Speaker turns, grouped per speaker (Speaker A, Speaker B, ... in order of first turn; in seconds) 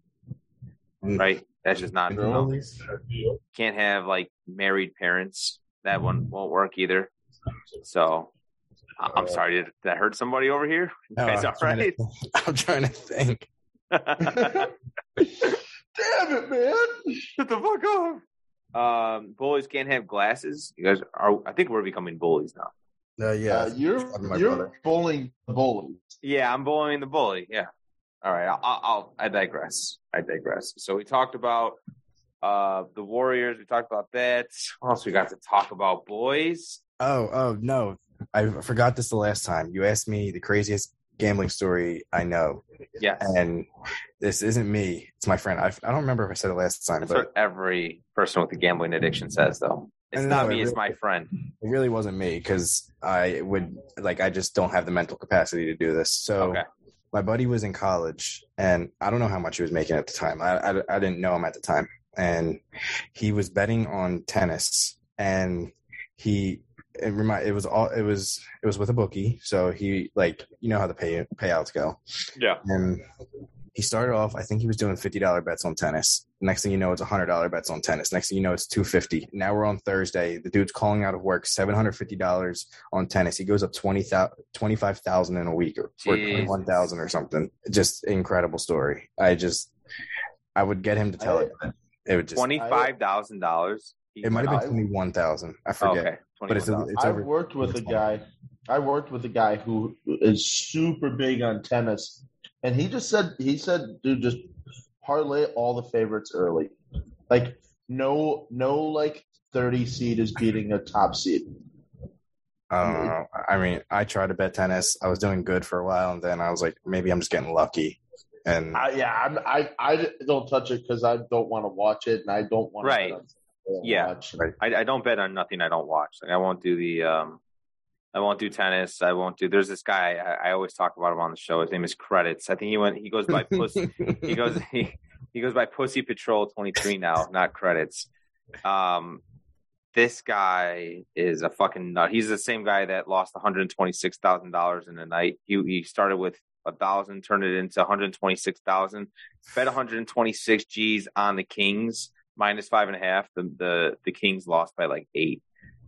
Speaker A: 1.2-2.5, 3.5-7.1, 7.8-8.3, 9.0-11.9, 13.9-14.7, 17.4-18.2, 18.7-22.7, 26.2-27.7, 28.2-31.8, 32.4-36.8, 43.0-43.3, 47.0-51.3, 56.4-56.6, 72.3-72.6, 86.0-86.6, 92.3-94.7, 95.8-97.0, 122.8-123.2, 123.8-127.4, 128.1-138.1, 138.6-139.2, 139.9-155.4
Speaker B: 2.1-2.7, 9.1-9.4, 11.2-13.5, 23.2-24.7, 37.0-42.6, 43.2-43.7, 44.2-47.3, 50.1-51.0, 51.5-62.6, 63.1-72.0, 72.6-73.0, 73.7-89.7, 90.5-92.5, 94.2-98.0, 112.7-118.8, 134.0-134.3
Speaker C: 2.1-2.5, 14.4-14.7, 15.2-17.3, 23.5-26.0, 91.2-91.5, 92.5-92.9, 94.4-94.8, 96.9-104.5, 105.0-106.7, 107.3-111.5, 112.8-113.1, 118.7-124.5